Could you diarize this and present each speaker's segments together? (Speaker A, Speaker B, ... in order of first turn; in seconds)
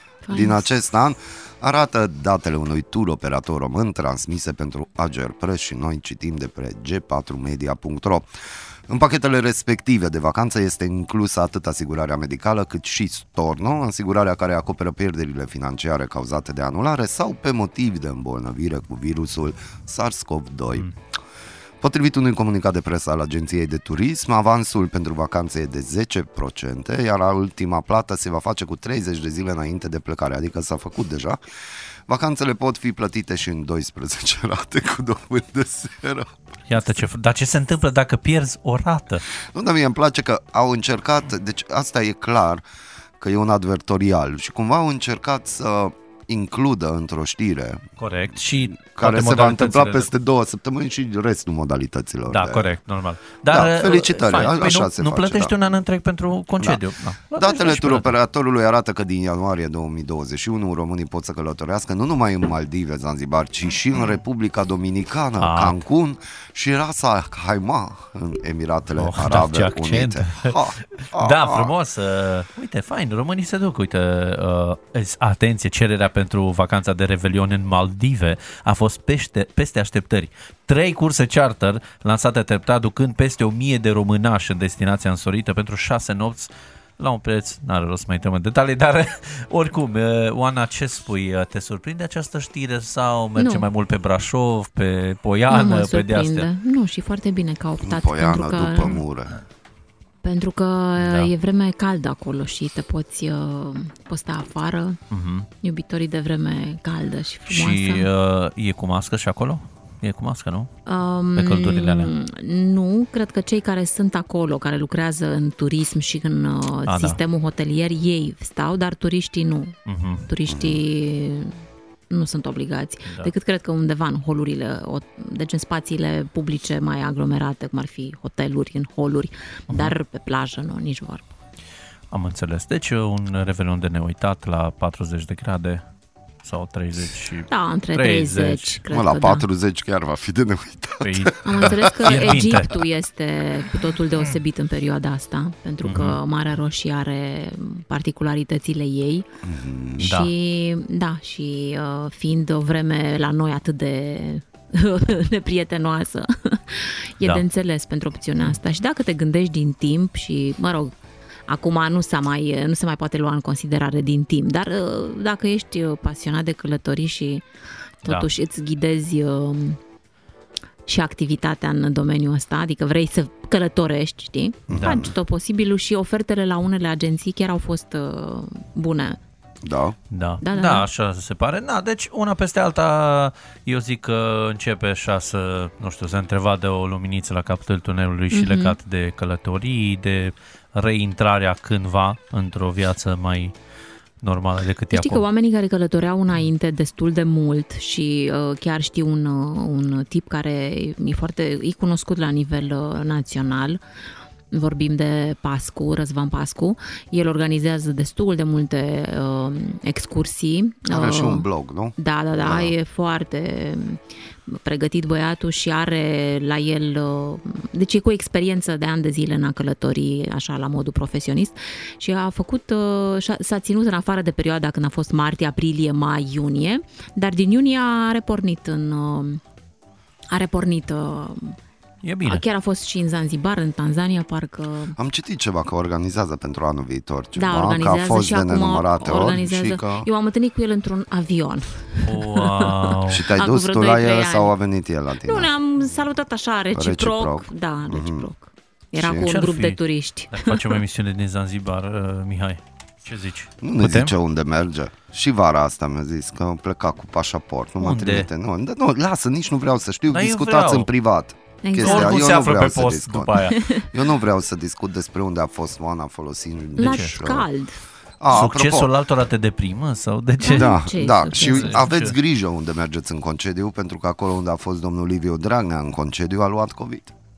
Speaker A: 0.2-0.7, 93.4-93.6, 95.5-99.0, 100.2-105.0, 105.6-108.1, 110.9-119.8, 120.3-121.6, 122.1-131.3, 137.5-139.4, 141.4-149.3, 150.0-160.9, 161.5-167.4, 168.0-169.8, 170.9-179.2, 180.4-180.8, 188.3-188.8, 194.9-203.8, 204.5-211.4, 212.0-229.4, 230.3-231.6, 232.2-235.0, 237.3-244.5, 245.2-250.8, 261.6-262.3, 263.3-263.9, 266.8-267.7, 270.4-271.8
Speaker B: 0.3-8.3, 8.9-20.9, 21.8-31.4, 32.1-36.3, 39.4-42.6, 43.2-47.9, 48.9-52.7, 53.5-55.5, 57.4-71.7, 97.8-99.4, 120.5-120.8, 138.9-142.4, 149.4-150.1, 174.7-175.1, 179.6-180.0, 210.9-212.7, 235.0-239.9, 243.1-245.5, 246.7-248.3, 248.9-249.2, 253.6-267.4, 268.2-268.9, 270.5-277.1
Speaker C: 36.7-39.2, 48.0-50.1, 52.3-58.1, 65.4-65.8, 68.9-96.5, 101.0-101.3, 105.1-105.5, 107.5-110.7, 111.3-112.1, 116.9-117.2, 119.8-120.2, 123.0-123.3, 132.1-135.8, 136.4-138.8, 141.0-142.8, 145.8-146.2, 150.0-150.3, 174.7-175.1, 180.1-193.5, 194.2-195.2, 232.0-232.4, 242.0-243.2, 249.2-249.8, 250.3-254.1, 257.8-258.3, 260.1-260.9, 261.8-263.6, 266.8-267.1, 268.3-270.8, 271.4-272.1